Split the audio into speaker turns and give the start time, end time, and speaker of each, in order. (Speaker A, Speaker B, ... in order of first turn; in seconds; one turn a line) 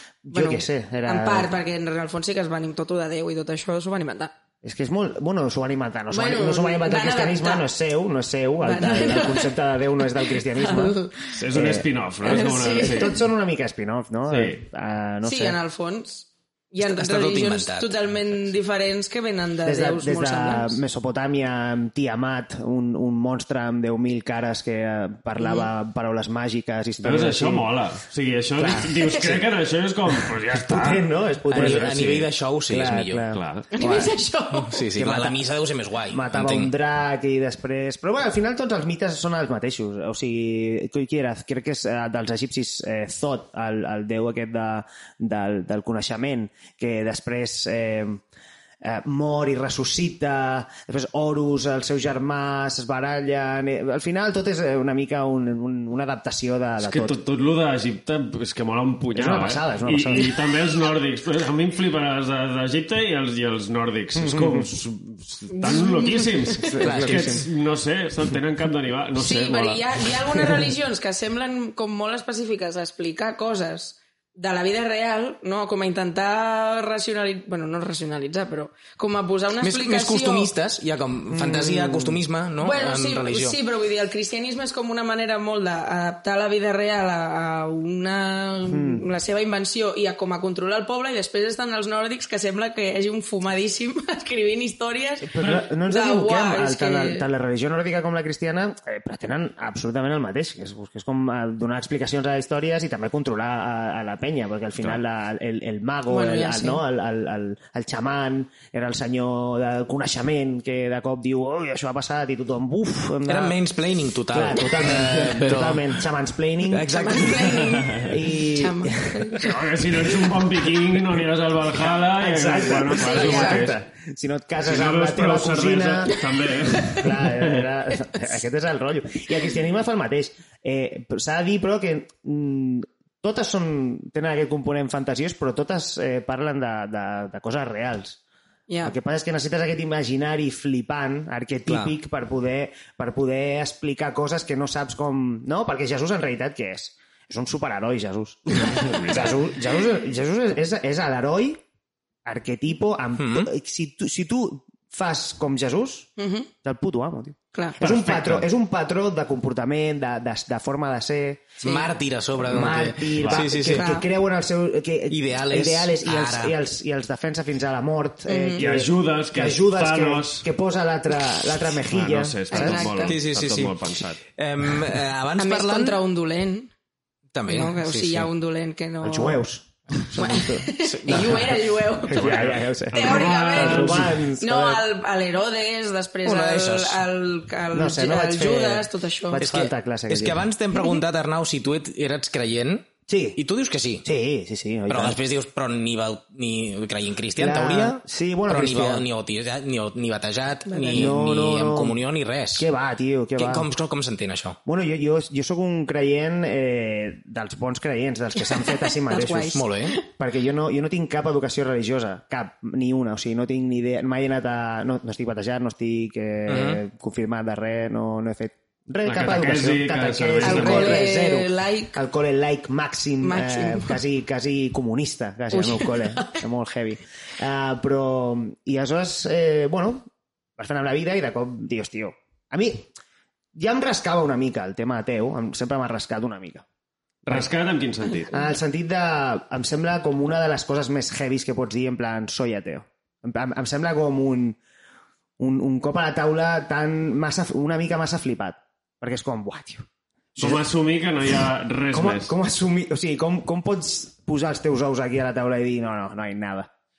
Speaker A: 0.2-1.5
Speaker B: 0.3-4.3
Speaker A: 4.6-11.0
Speaker B: 6.1-7.7
Speaker B: 8.6-9.5
Speaker B: 10.2-11.3
Speaker C: 11.3-13.2
Speaker A: 11.5-15.6
Speaker B: 12.2-13.2
Speaker C: 14.3-14.6
Speaker B: 15.2-20.8
Speaker D: 16.8-18.4
Speaker A: 19.6-27.7
Speaker B: 25.4-25.7
Speaker C: 27.0-32.1
Speaker A: 28.6-29.4
Speaker A: 30.5-34.1
Speaker D: 31.5-33.2
Speaker C: 33.3-33.7
Speaker B: 33.8-34.8
Speaker D: 34.6-36.7
Speaker A: 35.0-35.4
Speaker A: 36.1-48.2
Speaker A: 48.8-57.2
Speaker C: 56.8-70.1
Speaker A: 59.1-60.3
Speaker A: 64.2-64.7
Speaker B: 65.5-66.8
Speaker A: 66.6-67.5
Speaker D: 66.8-67.4
Speaker B: 69.2-80.5
Speaker D: 79.6-83.6
Speaker A: 81.3-82.2
Speaker B: 82.6-97.2
Speaker A: 88.7-89.0
Speaker A: 95.2-113.6
Speaker B: 106.1-106.8
Speaker D: 113.3-115.9
Speaker A: 114.3-116.9
Speaker D: 116.7-117.8
Speaker B: 116.9-119.6
Speaker C: 117.6-118.1
Speaker A: 118.0-119.5
Speaker C: 119.4-123.8
Speaker A: 121.8-126.2
Speaker B: 123.0-123.6
Speaker C: 124.6-127.7
Speaker B: 126.1-127.1
Speaker A: 126.9-138.2
Speaker B: 138.7-139.0
Speaker A: 138.8-151.6
Speaker D: 141.7-141.9
Speaker C: 148.8-149.3
Speaker A: 152.2-156.1
Speaker D: 153.2-153.5
Speaker B: 156.2-156.5
Speaker A: 156.6-161.6
Speaker C: 157.8-158.5
Speaker B: 161.6-161.9
Speaker D: 161.6-163.9
Speaker A: 162.5-172.9
Speaker C: 163.2-163.6
Speaker B: 163.6-164.1
Speaker D: 165.1-166.6
Speaker B: 168.3-168.7
Speaker C: 168.6-170.4
Speaker C: 171.8-174.2
Speaker B: 172.5-173.2
Speaker D: 173.1-173.8
Speaker D: 174.3-176.0
Speaker B: 175.4-176.7
Speaker D: 177.3-178.3
Speaker B: 177.5-179.4
Speaker A: 179.0-181.6
Speaker B: 180.2-189.4
Speaker D: 180.8-181.7
Speaker A: 182.1-184.9
Speaker C: 182.2-184.3
Speaker D: 186.2-187.0
Speaker A: 187.7-190.5
Speaker D: 189.4-194.1
Speaker A: 193.1-193.4
Speaker A: 194.0-195.2
Speaker D: 194.9-202.7
Speaker A: 197.4-199.1
Speaker B: 200.7-201.1
Speaker A: 200.9-202.0
Speaker A: 202.6-203.7
Speaker D: 203.4-204.6
Speaker A: 204.7-232.9
Speaker B: 208.5-210.0
Speaker D: 209.5-210.0
Speaker D: 216.5-216.8
Speaker C: 219.0-221.1
Speaker B: 220.4-222.0
Speaker B: 223.2-224.0
Speaker B: 225.5-226.4
Speaker A: 233.6-236.7
Speaker C: 237.2-238.4
Speaker A: 238.3-244.6
Speaker A: 245.4-249.9
Speaker A: 250.4-250.7
Speaker C: 250.4-252.3
Speaker A: 251.9-256.7